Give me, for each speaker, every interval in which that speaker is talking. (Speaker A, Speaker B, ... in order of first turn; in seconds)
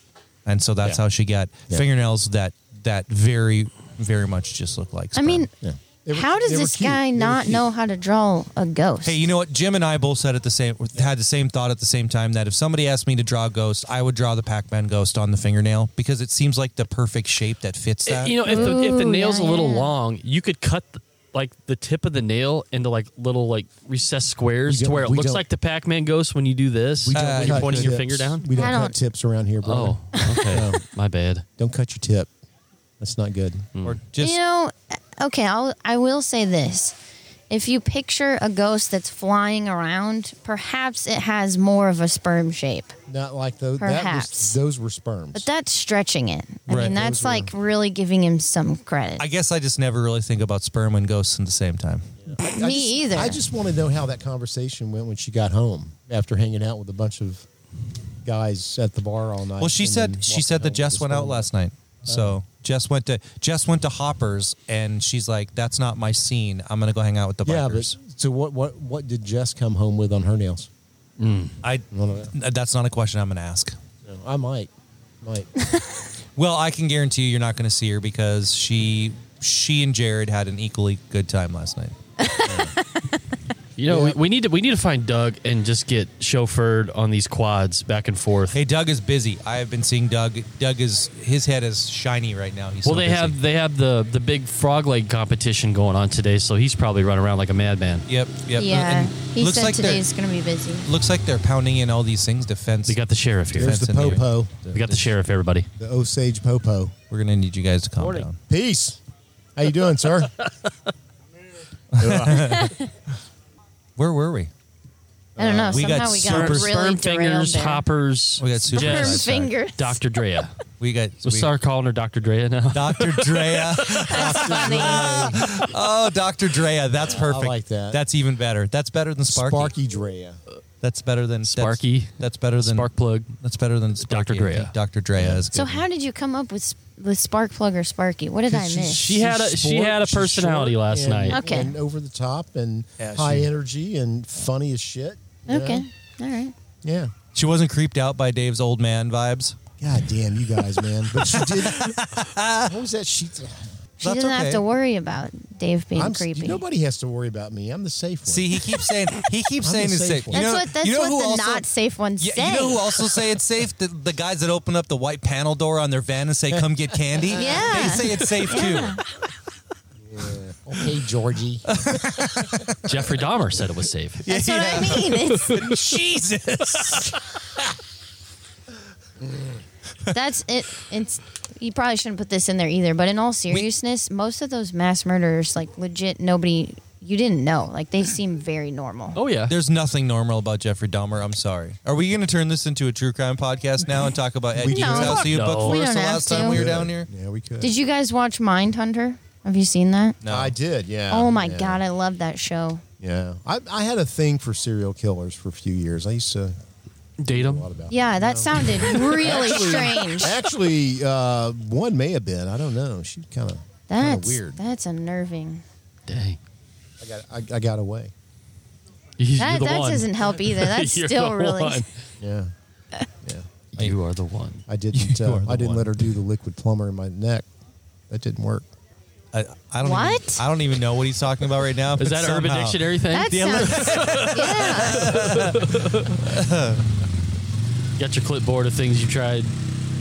Speaker A: 0.5-5.5, 9.0-18.7, 27.1-28.0, 33.8-34.4, 46.7-47.0, 49.2-52.1, 59.6-68.0, 71.6-73.8, 76.4-82.0, 88.5-93.4, 98.1-100.1, 100.8-105.0, 107.1-108.4, 111.9-112.8, 114.0-114.5, 115.7-116.7, 118.4-119.4, 120.8-121.5, 122.7-129.7, 130.8-135.8, 143.0-143.5, 147.3-149.6, 150.5-152.7, 154.0-154.6, 158.3-161.7, 162.2-169.0, 171.7-173.0, 174.3-177.2, 189.5-197.1, 200.2-200.5, 224.9-226.1, 229.3-236.9
Speaker B: 5.2-5.5, 6.1-9.2, 18.5-19.9, 28.5-28.9, 30.1-30.6, 34.2-37.0, 37.5-42.9, 43.8-44.6, 45.3-49.2, 52.4-53.4, 82.2-83.0, 98.6-100.9, 112.5-112.8, 115.4-117.9, 118.7-120.0, 124.0-125.3, 135.5-139.0, 141.3-141.8, 145.5-146.5, 154.0-156.6, 160.3-162.9, 167.3-169.0, 174.2-175.8, 180.1-189.2, 194.7-196.6, 197.6-200.2, 201.1-202.8, 207.9-210.4, 213.9-215.6, 219.4-221.8, 229.8-230.4, 233.1-235.2
Speaker C: 5.6-7.7, 24.7-25.4, 27.0-30.8, 31.6-32.3, 33.0-33.7, 43.1-45.5, 46.7-47.5, 52.2-57.5, 58.2-61.5, 62.1-62.4, 67.5-70.7, 71.9-72.3, 74.0-74.7, 75.2-75.5, 82.5-82.7, 83.9-84.2, 103.6-104.5, 105.8-107.0, 108.5-109.0, 109.6-110.3, 112.0-112.7, 115.4-116.0, 124.1-125.4, 127.1-128.0, 129.3-130.4, 135.2-135.5, 138.5-145.8, 146.8-147.1, 149.8-152.0, 152.7-153.8, 156.0-158.8, 159.6-160.5, 170.1-171.7, 194.6-195.3, 196.3-197.7, 200.3-201.8, 203.0-206.6, 207.3-214.6, 217.0-218.1, 222.2-222.5, 223.2-223.6, 224.7-227.5, 228.1-228.7
Speaker D: 18.1-28.5, 29.6-31.4, 71.2-71.6, 83.8-88.6, 92.8-98.1, 102.9-104.2, 104.7-105.7, 116.2-120.6, 121.2-123.9, 131.5-133.3, 134.0-134.7, 138.9-141.4, 172.8-175.7, 176.7-177.2, 189.2-189.6, 194.9-195.8, 207.2-207.7, 216.1-216.4, 219.2-221.9, 223.8-224.6, 232.0-236.2, 238.0-239.5